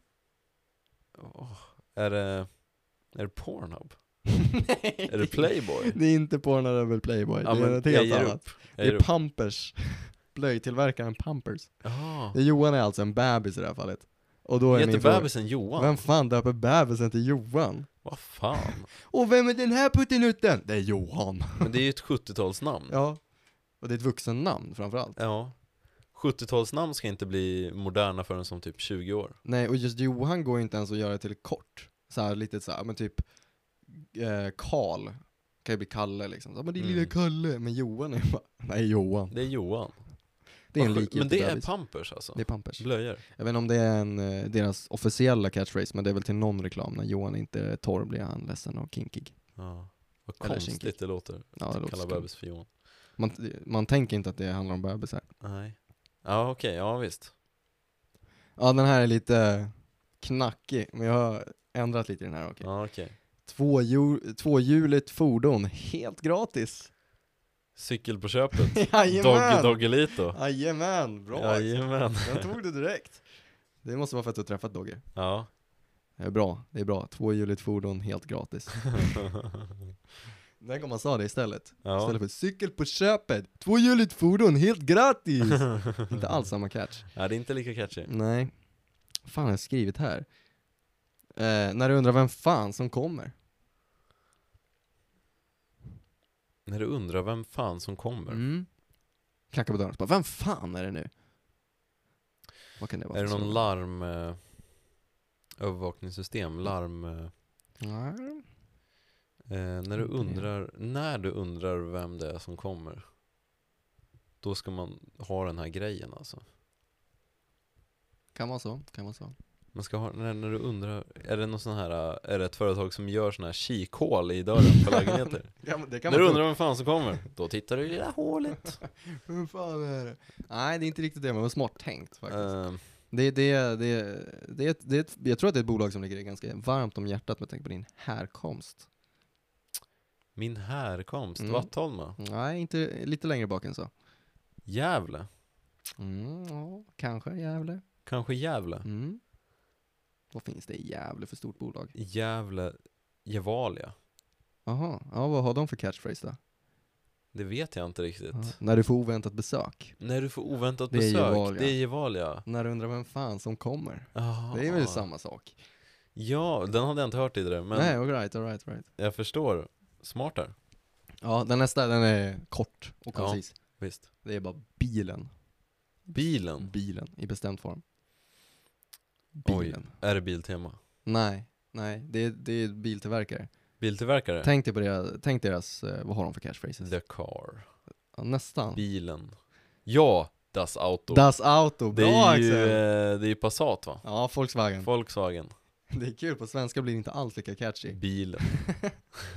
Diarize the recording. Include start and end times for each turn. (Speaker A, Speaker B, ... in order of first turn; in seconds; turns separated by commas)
Speaker A: 1.1-4.3, Speaker B: 4.6-21.7, Speaker A: 5.1-6.0, Speaker A: 7.4-9.1, Speaker A: 11.8-12.4, Speaker A: 14.7-16.0, Speaker A: 18.0-18.9, Speaker A: 21.6-23.0, Speaker B: 22.9-25.2, Speaker A: 25.1-29.4, Speaker B: 29.4-33.2, Speaker B: 33.9-39.4, Speaker A: 36.8-37.1, Speaker A: 39.3-43.2, Speaker B: 40.7-49.4, Speaker A: 49.5-52.7, Speaker B: 50.4-55.3, Speaker A: 55.4-57.3, Speaker B: 58.6-66.9, Speaker A: 62.6-63.1, Speaker A: 67.7-70.4, Speaker B: 68.7-73.3, Speaker A: 71.3-72.5, Speaker B: 73.8-75.0, Speaker A: 75.1-75.5, Speaker B: 76.2-79.2, Speaker B: 80.6-87.2, Speaker A: 81.8-82.2, Speaker A: 87.1-88.1, Speaker B: 88.0-88.5, Speaker B: 89.2-90.3, Speaker B: 91.3-93.3, Speaker A: 96.7-98.4, Speaker B: 98.3-98.8, Speaker B: 99.5-101.1, Speaker B: 102.8-103.7, Speaker A: 103.1-104.6, Speaker A: 105.6-107.3, Speaker B: 107.8-108.5, Speaker A: 109.5-113.0, Speaker B: 110.0-110.5, Speaker A: 114.4-116.4, Speaker B: 118.3-119.3, Speaker A: 119.7-128.8, Speaker B: 125.1-126.5, Speaker B: 129.1-138.8, Speaker A: 132.3-132.8, Speaker A: 140.3-142.2, Speaker B: 141.4-143.9, Speaker A: 144.7-145.3, Speaker B: 146.0-147.8, Speaker A: 148.0-148.8, Speaker B: 148.8-149.2, Speaker B: 150.3-151.9, Speaker A: 151.9-153.9, Speaker B: 154.7-156.4, Speaker A: 157.3-158.6, Speaker B: 158.3-160.0, Speaker A: 160.0-162.4, Speaker B: 160.9-161.9, Speaker B: 162.4-165.6, Speaker A: 164.1-165.1, Speaker A: 166.1-168.0, Speaker B: 167.7-168.9, Speaker A: 169.0-170.5, Speaker B: 171.2-175.3, Speaker A: 173.1-174.0, Speaker B: 176.0-177.8, Speaker A: 176.1-176.7, Speaker B: 179.3-179.9, Speaker A: 179.4-180.8, Speaker B: 181.0-183.5, Speaker A: 183.8-184.5, Speaker B: 184.4-186.9, Speaker A: 186.8-187.7, Speaker B: 188.1-188.8, Speaker A: 188.7-191.3, Speaker B: 191.1-192.8, Speaker A: 191.9-194.1, Speaker B: 194.0-194.9, Speaker A: 194.8-195.5, Speaker B: 195.9-198.9, Speaker A: 197.9-198.9